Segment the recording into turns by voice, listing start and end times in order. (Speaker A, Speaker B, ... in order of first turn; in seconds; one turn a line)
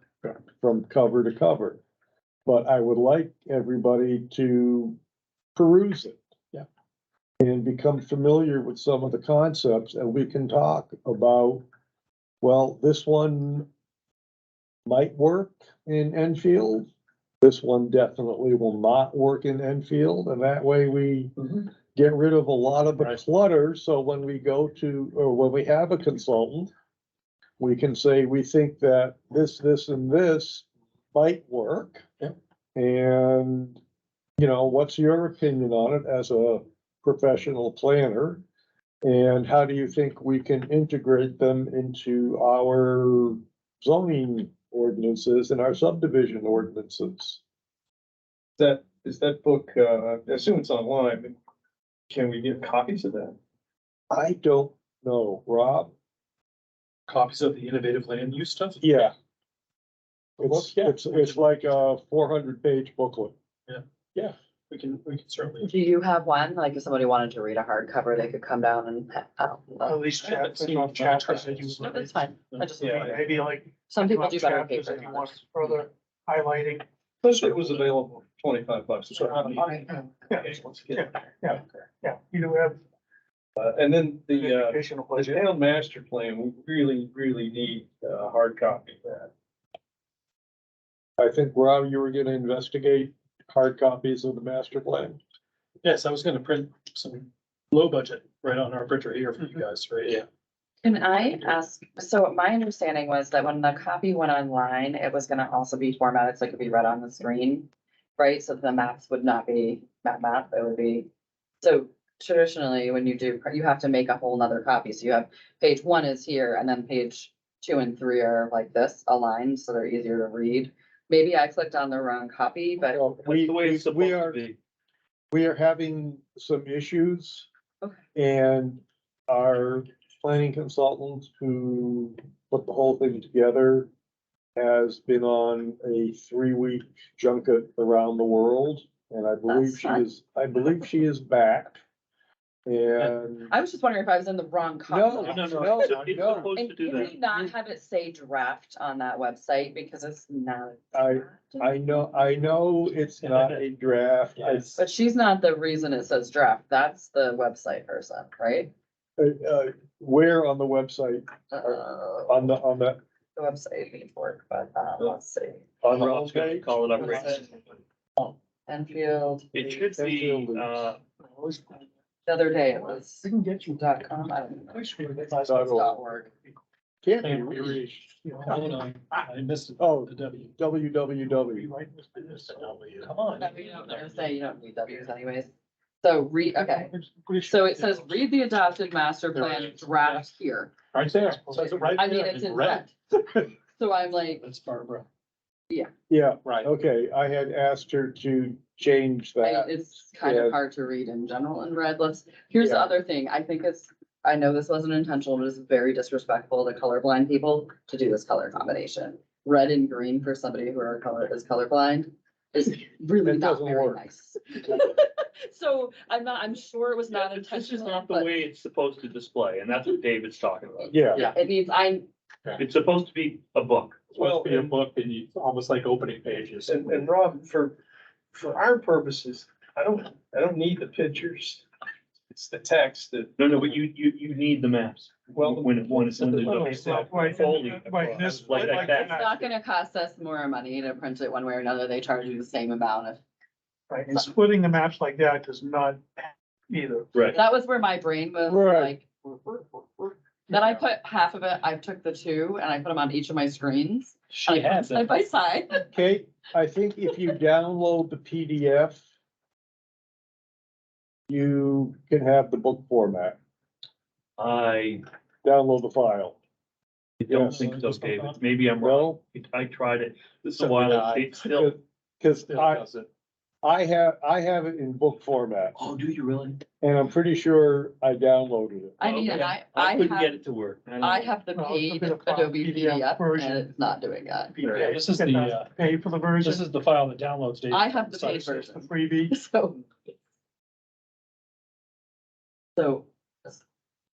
Speaker A: 0.6-1.8
Speaker A: 2.5-5.0
Speaker A: 5.5-6.6
Speaker A: 7.4-11.6
Speaker A: 12.4-13.7
Speaker A: 14.8-16.9
Speaker A: 17.4-26.7
Speaker A: 27.6-32.1
Speaker A: 32.7-33.8
Speaker A: 34.4-38.4
Speaker A: 39.0-47.4
Speaker B: 48.6-51.3
Speaker B: 52.1-53.4
Speaker A: 54.1-55.9
Speaker C: 57.1-59.0
Speaker A: 58.8-59.1
Speaker A: 60.4-63.3
Speaker C: 60.4-61.6
Speaker C: 63.7-65.7
Speaker D: 65.6-70.0
Speaker E: 69.8-72.3
Speaker C: 70.1-72.0
Speaker D: 71.8-73.2
Speaker C: 72.5-73.2
Speaker E: 72.8-76.8
Speaker D: 73.9-75.4
Speaker B: 77.2-81.3
Speaker C: 77.3-77.8
Speaker C: 79.1-79.6
Speaker D: 79.6-80.0
Speaker E: 80.3-82.8
Speaker B: 83.6-89.3
Speaker E: 84.4-85.4
Speaker A: 91.2-95.2
Speaker C: 95.8-100.2
Speaker D: 100.8-111.1
Speaker D: 111.6-123.1
Speaker A: 122.8-124.4
Speaker F: 123.2-124.5
Speaker A: 125.3-127.5
Speaker A: 128.1-133.9
Speaker A: 134.6-141.8
Speaker D: 139.5-140.0
Speaker A: 142.7-143.5
Speaker D: 143.5-145.8
Speaker A: 144.9-146.5
Speaker F: 145.2-147.1
Speaker C: 145.5-146.3
Speaker D: 146.5-152.1
Speaker A: 150.9-154.7
Speaker C: 153.2-153.6
Speaker C: 154.4-154.8
Speaker D: 154.8-158.7
Speaker A: 159.2-163.0
Speaker D: 161.5-162.6
Speaker D: 163.3-165.7
Speaker A: 165.8-167.2
Speaker F: 165.8-167.5
Speaker D: 167.0-167.4
Speaker D: 168.2-169.5
Speaker F: 169.5-171.0
Speaker A: 169.9-170.9
Speaker E: 171.3-171.8
Speaker D: 172.2-174.8
Speaker C: 173.2-173.8
Speaker C: 174.7-175.4
Speaker E: 175.2-175.7
Speaker A: 175.4-176.0
Speaker D: 175.6-176.3
Speaker A: 177.0-178.1
Speaker C: 177.2-177.9
Speaker E: 178.2-178.5
Speaker C: 178.4-180.5
Speaker A: 179.8-181.7
Speaker E: 181.4-183.1
Speaker C: 182.2-184.1
Speaker D: 183.4-185.5
Speaker D: 186.0-186.9
Speaker C: 186.6-188.1
Speaker D: 187.4-190.7
Speaker C: 189.3-190.2
Speaker C: 190.9-192.9
Speaker E: 191.5-191.9
Speaker D: 191.9-192.9
Speaker D: 193.8-194.4
Speaker C: 194.4-195.1
Speaker A: 196.1-200.6
Speaker D: 199.4-218.4
Speaker A: 202.6-202.9
Speaker A: 213.2-214.0
Speaker F: 217.1-221.3
Speaker A: 220.9-221.3
Speaker D: 221.0-222.1
Speaker F: 222.6-224.1
Speaker C: 224.1-226.9
Speaker B: 224.2-224.7
Speaker B: 226.7-227.8
Speaker B: 228.3-231.6
Speaker B: 232.3-233.7
Speaker F: 233.4-239.2
Speaker B: 235.3-237.6
Speaker E: 236.5-239.4
Speaker D: 238.8-243.2
Speaker E: 243.9-247.1
Speaker D: 247.3-255.9
Speaker A: 248.5-248.9
Speaker C: 254.3-255.1
Speaker A: 255.9-259.0
Speaker A: 261.3-263.4
Speaker F: 264.4-265.0
Speaker A: 265.4-266.4
Speaker F: 267.2-271.8
Speaker A: 267.3-267.7
Speaker C: 267.3-268.4
Speaker A: 268.8-269.2
Speaker A: 270.8-272.8
Speaker C: 272.5-273.1
Speaker A: 273.6-275.8
Speaker F: 275.8-276.6
Speaker A: 276.8-279.0
Speaker D: 279.0-280.4
Speaker F: 279.0-281.4
Speaker D: 281.0-284.5
Speaker E: 281.5-283.7
Speaker E: 284.5-286.6
Speaker C: 284.7-285.7
Speaker C: 286.4-288.8
Speaker D: 287.7-289.8
Speaker E: 288.8-289.3
Speaker D: 292.8-293.6